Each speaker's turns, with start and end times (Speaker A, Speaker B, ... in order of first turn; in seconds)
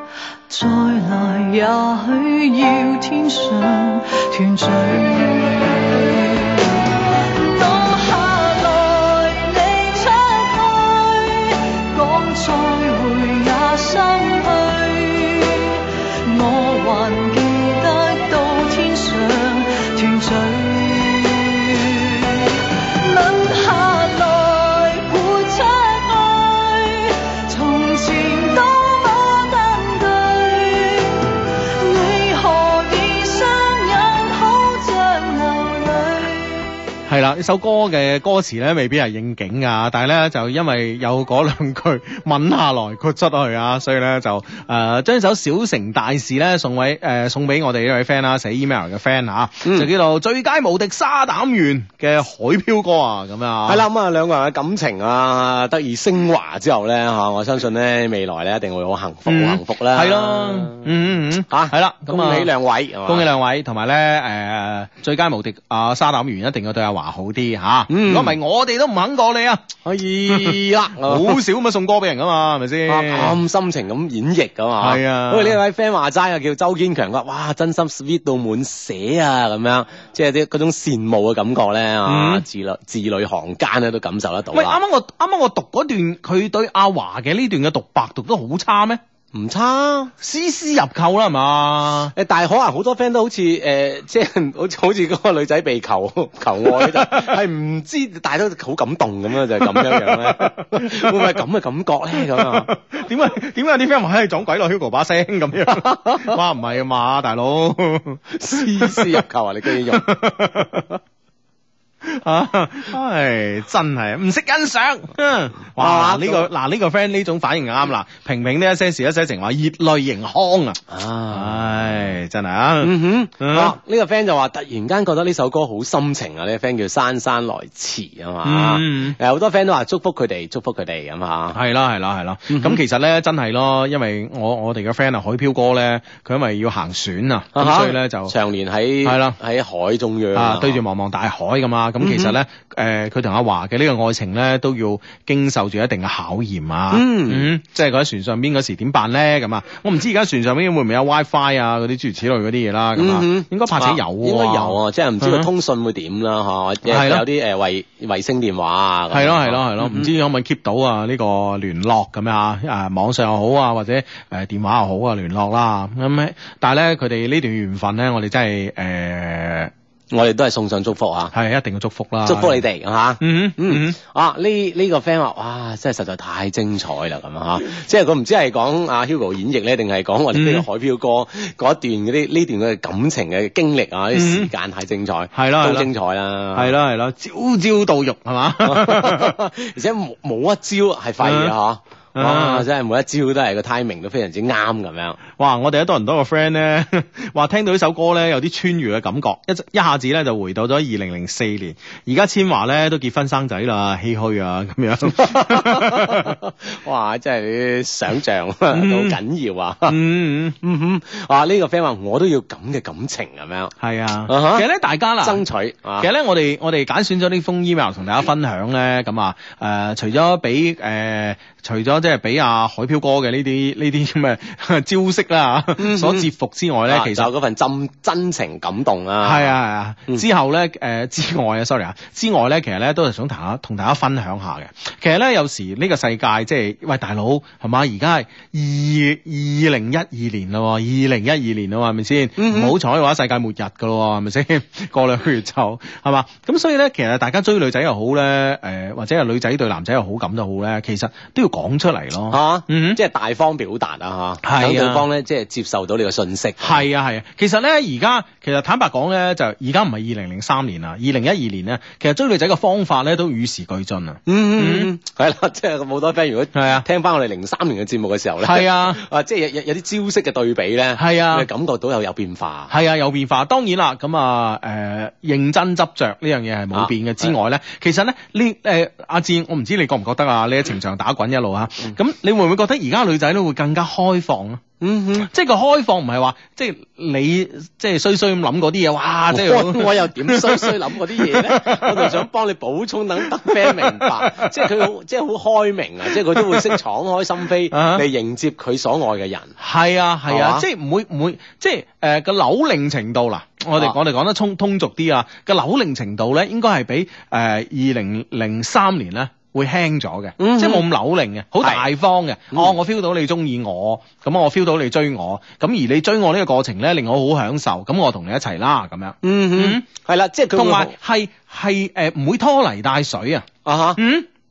Speaker A: 0.5-36.4
Speaker B: 37.1-53.8, 59.3-62.5, 63.0-69.8, 70.3-73.4, 74.8-75.6, 82.0-82.4, 84.5-89.0, 90.2-92.1, 96.7-97.4, 99.7-101.2, 102.2-109.2, 109.9-111.0, 112.0-123.8, 128.4-129.2, 131.5-138.3, 139.0-139.4, 140.3-155.5, 156.9-157.2, 159.1-169.7, 171.3-172.6, 173.2-174.0, 180.3-180.6, 184.1-184.5, 185.3-185.9, 186.5-189.3, 191.2-191.5, 192.2-192.7, 195.4-206.3, 208.7-209.2, 209.9-210.6, 213.8-215.4, 216.0-227.3, 229.2-253.0, 254.4-255.1, 256.6-264.9, 266.5-266.8, 268.4-269.0, 271.0-271.5, 272.7-284.6, 285.2-292.2, 293.4-294.9, 296.3-296.7, 297.7-298.0, 299.6-319.8, 320.5-324.3
Speaker C: 49.6-49.9, 53.6-60.8, 61.5-63.2, 67.9-68.3, 69.8-71.4, 72.9-84.8, 89.3-90.1, 92.1-102.7, 108.3-110.0, 115.8-116.5, 120.9-121.6, 122.8-131.6, 132.5-132.8, 137.5-140.8, 142.0-142.3, 146.9-147.5, 152.9-160.1, 170.1-171.3, 172.2-186.7, 188.6-195.2, 205.2-210.0, 210.6-213.7, 214.3-214.7, 215.2-216.1, 225.8-226.3, 226.9-229.5, 242.4-242.7, 252.3-256.8, 264.2-272.7, 276.7-277.3, 284.8-285.3, 289.3-299.5, 300.3-300.6, 310.4-310.8, 311.6-311.9, 319.2-320.9, 323.6-324.0